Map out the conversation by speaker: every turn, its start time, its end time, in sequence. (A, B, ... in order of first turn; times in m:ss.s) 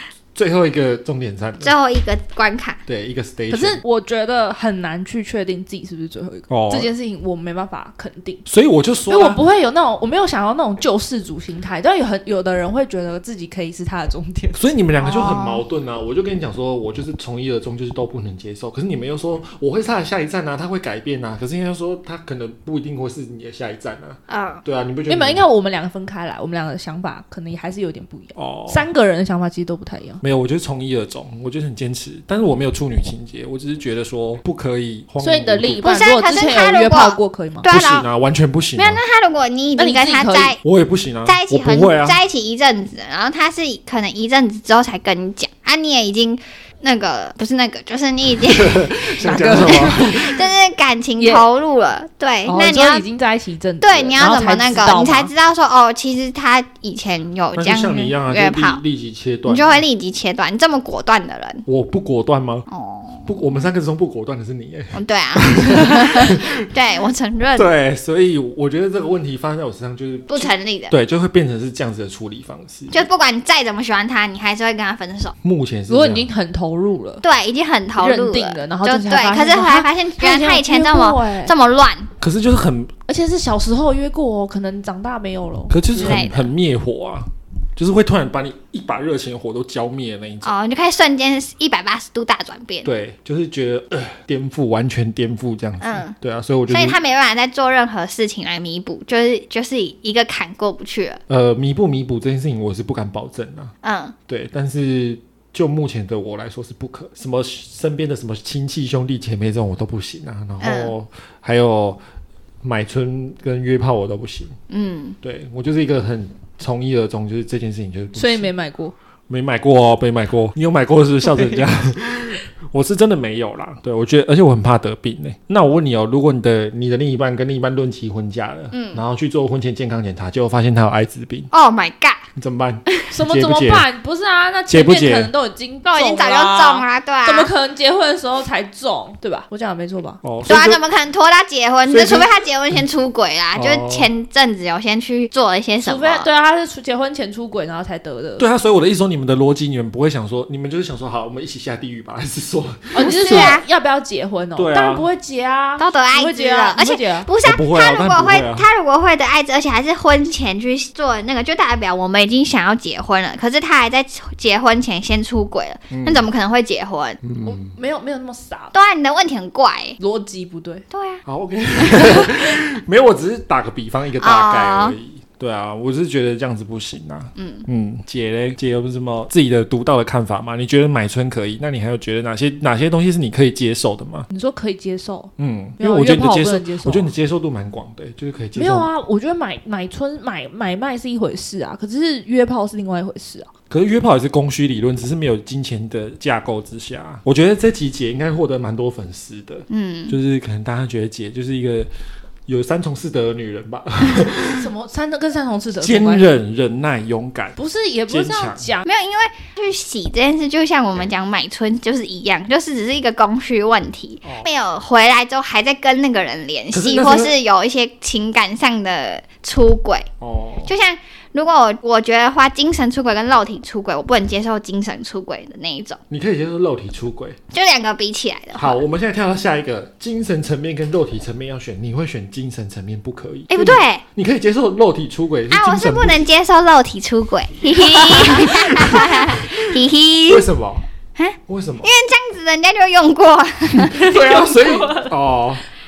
0:00.3-0:01.7 A
0:01.6-0:02.8 B
0:02.9-0:03.8 A
0:03.5-0:08.4 C
0:06.5-0:06.9 A
0:08.5-0:09.4 A
0:09.1-0:14.7 C
0:14.6-0:25.5 A
0:15.0-0:15.6 B
0:24.3-0:24.6 B
0:25.1-0:30.2 C
0:28.4-0:28.9 A
0:30.2-0:35.9 A
0:35.2-0:37.7 C
0:35.8-0:38.1 B
0:37.7-0:39.0 A
0:38.8-0:40.6 B
0:39.8-0:40.6 C
0:40.6-0:42.2 A
0:41.3-0:53.0 B
0:48.4-0:50.5 A
0:49.2-0:50.0 C
0:51.2-0:51.5 C
0:52.5-0:55.3 C
0:53.8-0:58.8 B
0:57.6-0:59.8 A
0:59.5-1:01.6 B
1:01.7-1:02.7 A
1:02.7-1:03.3 B
1:03.3-1:06.5 A
1:04.9-1:07.7 B
1:07.6-1:13.1 A
1:10.3-1:10.9 B
1:12.9-1:15.3 B
1:15.4-1:16.3 A
1:15.9-1:17.2 C
1:17.2-1:22.1 B
1:18.0-1:21.5 C
1:22.2-1:22.9 A
1:23.1-1:26.3 C
1:25.7-1:30.5 A
1:26.0-1:26.5 B
1:30.4-1:32.9 B
1:32.8-1:37.0 A
1:35.8-1:36.2 B
1:36.7-1:41.2 B
1:41.3-1:43.7 A
1:43.8-1:44.1 B
1:44.3-1:52.0 A
1:50.6-1:51.0 B
1:52.6-1:54.6 A
1:54.7-1:55.2 B
1:55.2-1:58.5 A
1:58.2-1:58.9 C
1:59.3-2:11.5 A
2:08.7-2:09.0 B
2:11.5-2:12.3 B
2:12.4-2:13.9 A
2:13.1-2:20.2 C
2:14.7-2:15.3 A
2:15.9-2:17.5 B
2:20.2-2:20.8 A
2:20.5-2:26.3 B
2:21.9-2:22.8 A
2:23.5-2:24.1 A
2:25.8-2:28.5 C
2:28.4-2:33.6 A
2:32.9-2:37.3 C
2:33.0-2:33.6 B
2:34.6-2:35.1 A
2:35.8-2:47.2 B
2:37.4-2:38.7 A
2:45.9-2:46.3 A
2:47.2-2:47.8 A
2:47.4-2:48.7 C
2:48.7-2:50.0 B
2:50.0-2:50.8 C
2:50.9-2:51.2 B
2:51.3-3:04.3 A
2:51.8-2:52.2 B
2:54.2-2:55.0 B
2:57.4-2:57.7 B
3:04.3-3:07.1 C
3:05.4-3:08.9 A
3:08.6-3:13.5 C
3:13.7-3:21.9 A
3:19.7-3:20.2 B
3:22.5-3:24.7 A
3:24.4-3:26.4 C
3:25.8-3:27.6 A
3:27.6-3:28.8 C
3:28.1-3:28.7 A
3:28.8-3:40.1 B
3:36.7-3:37.4 A
3:40.2-3:40.7 A
3:40.6-3:46.0 B
3:46.1-3:47.4 A
3:47.5-3:48.8 B
3:48.6-3:56.2 A
3:53.5-3:54.0 B
3:55.5-4:00.5 B
3:57.8-4:00.8 A
4:01.2-4:04.0 B
4:01.5-4:01.9 A
4:03.8-4:05.6 A
4:04.0-4:05.1 C